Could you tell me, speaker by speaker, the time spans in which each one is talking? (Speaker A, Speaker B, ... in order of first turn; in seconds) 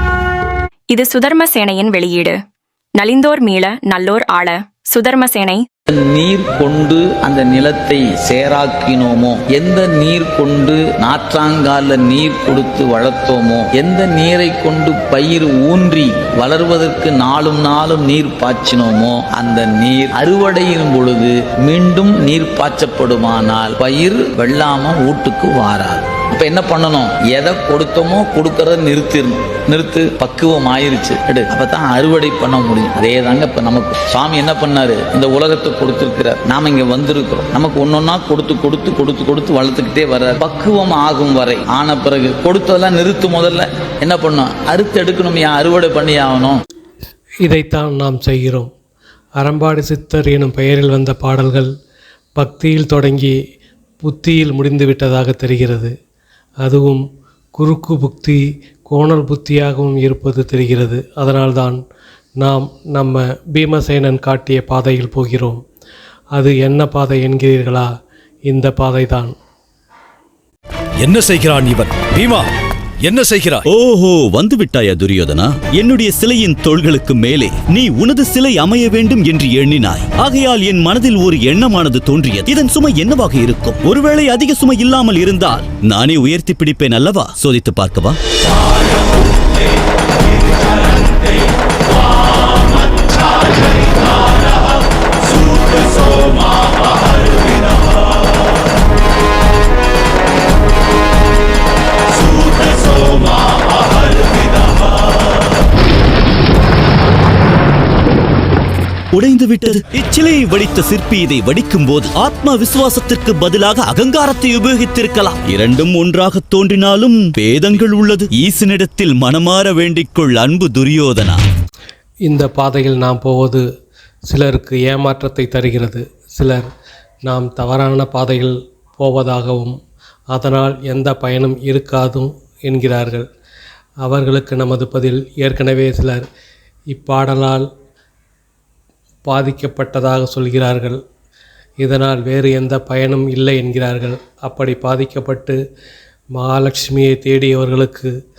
Speaker A: 0.9-2.4, 2.9-5.6
Speaker B: 5.9-46.6
Speaker C: 47.5-48.7, 49.4-51.7, 52.4-53.4, 54.0-55.9, 56.6-57.0, 57.5-61.8, 62.4-65.6, 66.3-67.9, 68.5-69.3, 122.3-123.6, 124.3-126.7, 127.2-129.7, 130.3-133.2, 134.0-136.2, 136.9-137.7, 139.2-141.0, 141.8-145.6, 146.3-148.1
Speaker D: 71.0-72.4, 73.0-73.6
Speaker E: 73.7-88.2, 109.1-121.4